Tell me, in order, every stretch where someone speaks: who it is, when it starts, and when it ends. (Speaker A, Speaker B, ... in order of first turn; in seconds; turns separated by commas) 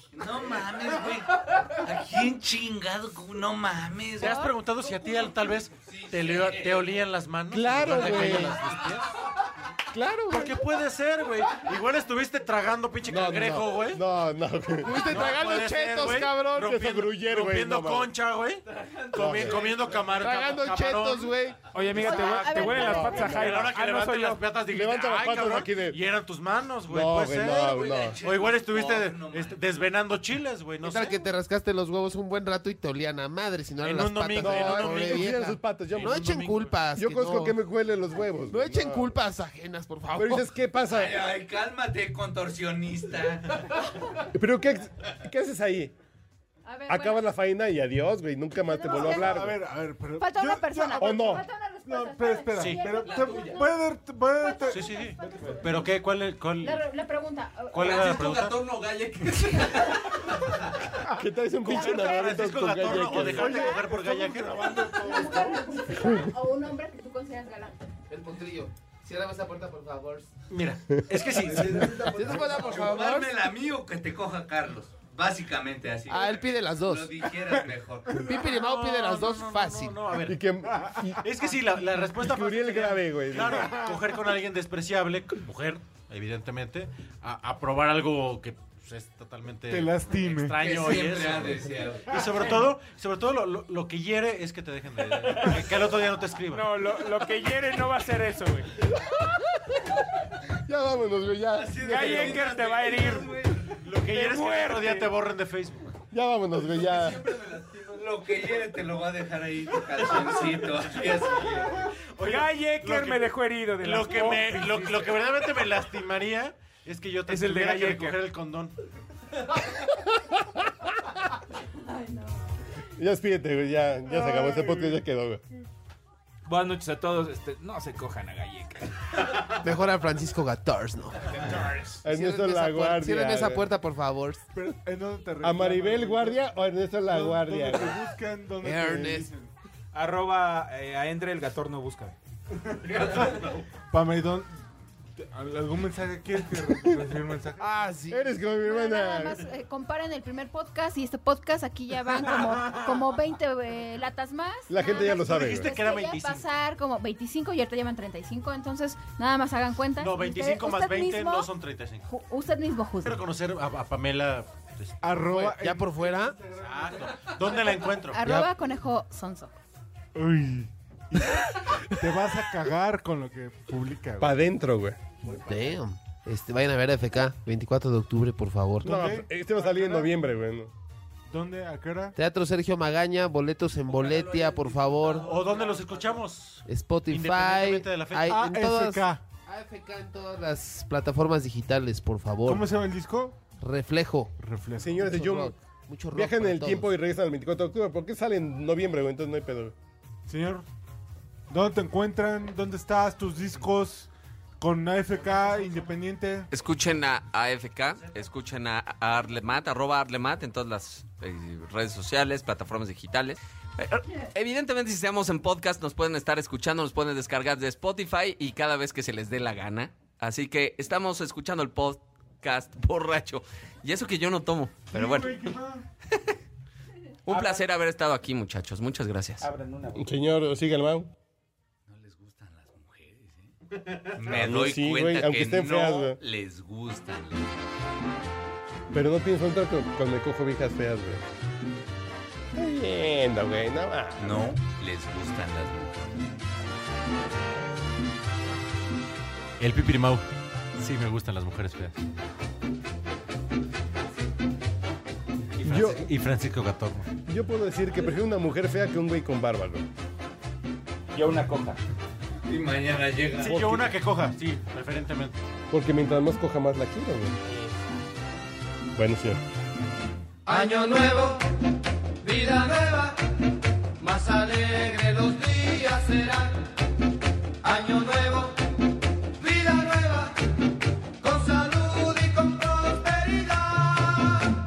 Speaker A: 0.1-6.9, Speaker B: 4.2-9.1, Speaker C: 4.2-4.5, Speaker D: 7.5-8.6, Speaker D: 9.9-10.6, Speaker B: 10.3-14.0, Speaker D: 13.1-15.2, Speaker E: 14.8-16.7, Speaker B: 15.1-31.2, Speaker D: 16.6-18.1, Speaker A: 18.8-19.8, Speaker D: 19.2-19.7, Speaker E: 20.1-21.7, Speaker F: 21.7-24.4, Speaker C: 22.0-23.4, Speaker D: 22.8-23.5, Speaker D: 24.7-26.0, Speaker D: 26.9-28.2, Speaker A: 27.6-29.6, Speaker E: 30.8-37.6, Speaker B: 33.8-36.8, Speaker D: 34.4-36.3, Speaker D: 37.0-39.2, Speaker E: 38.5-40.5, Speaker D: 40.1-41.3, Speaker A: 40.9-43.7, Speaker D: 44.3-45.9, Speaker C: 46.6-47.3, Speaker D: 46.9-49.6, Speaker C: 48.6-49.5, Speaker G: 48.9-55.0, Speaker C: 50.2-55.9, Speaker D: 51.0-51.4, Speaker B: 52.6-52.9, Speaker H: 53.0-53.6, Speaker B: 54.7-56.8, Speaker C: 56.6-58.0, Speaker B: 57.7-58.9, Speaker H: 57.7-60.2, Speaker C: 59.5-60.0, Speaker D: 61.1-63.6, Speaker B: 61.6-65.1, Speaker C: 61.7-62.6, Speaker G: 63.1-65.9, Speaker C: 63.2-63.8, Speaker C: 65.0-67.8, Speaker E: 68.1-70.3, Speaker B: 70.5-72.1, Speaker G: 71.5-72.6, Speaker E: 71.5-73.4, Speaker H: 71.7-72.7, Speaker A: 72.2-78.2, Speaker E: 76.1-77.3, Speaker G: 78.1-78.5, Speaker E: 78.1-80.0, Speaker B: 78.4-80.4, Speaker D: 80.2-81.2, Speaker B: 81.2-97.2, Speaker D: 82.2-83.8, Speaker G: 83.4-84.1, Speaker G: 89.7-90.7, Speaker A: 90.6-92.7, Speaker G: 92.1-92.7, Speaker F: 95.3-95.6, Speaker F: 96.5-98.7, Speaker D: 100.7-102.5, Speaker A: 101.5-103.7, Speaker F: 101.8-103.4, Speaker B: 103.8-105.9, Speaker F: 104.0-105.1, Speaker D: 106.1-107.2, Speaker A: 106.9-111.8, Speaker B: 110.0-111.1, Speaker B: 112.0-113.3, Speaker F: 112.2-115.2, Speaker B: 113.8-118.8, Speaker F: 117.3-118.2, Speaker C: 121.8-122.5, Speaker D: 123.0-125.4, Speaker G: 124.3-125.0, Speaker F: 126.5-129.3, Speaker E: 129.6-134.4, Speaker F: 131.4-132.0, Speaker D: 132.0-133.7, Speaker G: 134.5-136.5, Speaker D: 135.4-138.0, Speaker G: 137.1-139.5, Speaker E: 138.6-139.3, Speaker F: 139.9-142.2, Speaker G: 142.9-144.5, Speaker G: 145.2-147.7, Speaker E: 147.6-148.4, Speaker D: 148.1-149.5, Speaker C: 148.6-161.5, Speaker G: 152.3-153.1, Speaker D: 154.7-155.7, Speaker B: 154.8-156.4, Speaker B: 160.0-162.1, Speaker C: 162.1-163.2, Speaker B: 163.0-165.0, Speaker G: 165.0-167.4, Speaker E: 165.2-166.4, Speaker B: 166.6-168.4, Speaker C: 168.1-169.5, Speaker G: 170.2-174.4, Speaker D: 174.2-175.0, Speaker E: 175.3-179.1, Speaker D: 178.8-180.7, Speaker G: 178.8-180.2, Speaker G: 181.3-182.2, Speaker E: 182.2-185.3, Speaker H: 183.9-186.2, Speaker B: 185.2-188.4, Speaker E: 186.7-192.7, Speaker G: 188.3-189.2, Speaker G: 192.4-193.4, Speaker E: 193.6-194.3, Speaker G: 194.4-195.1, Speaker D: 194.8-195.6, Speaker E: 194.9-196.9, Speaker D: 196.1-199.8, Speaker G: 200.3-200.7, Speaker G: 201.5-204.1, Speaker G: 204.6-206.5, Speaker I: 206.5-225.4, Speaker G: 224.9-225.8, Speaker I: 227.3-229.5, Speaker F: 227.3-227.7, Speaker F: 229.4-230.1, Speaker D: 229.9-231.1, Speaker A: 231.9-233.5, Speaker A: 234.1-237.7, Speaker D: 234.2-236.2, Speaker D: 238.9-241.2, Speaker D: 242.6-244.5, Speaker A: 244.2-246.2, Speaker B: 249.6-250.2, Speaker B: 250.8-252.0, Speaker F: 255.6-255.9, Speaker B: 255.6-257.1, Speaker D: 255.7-256.0, Speaker D: 257.3-259.9, Speaker F: 261.1-261.8, Speaker A: 262.5-263.6, Speaker B: 263.4-265.4, Speaker D: 263.4-264.0, Speaker D: 265.7-267.4, Speaker F: 267.4-267.8, Speaker D: 268.9-269.4, Speaker H: 270.5-271.4, Speaker H: 272.2-273.2, Speaker H: 274.0-276.6, Speaker H: 277.6-278.6, Speaker H: 279.4-280.4, Speaker H: 281.2-284.6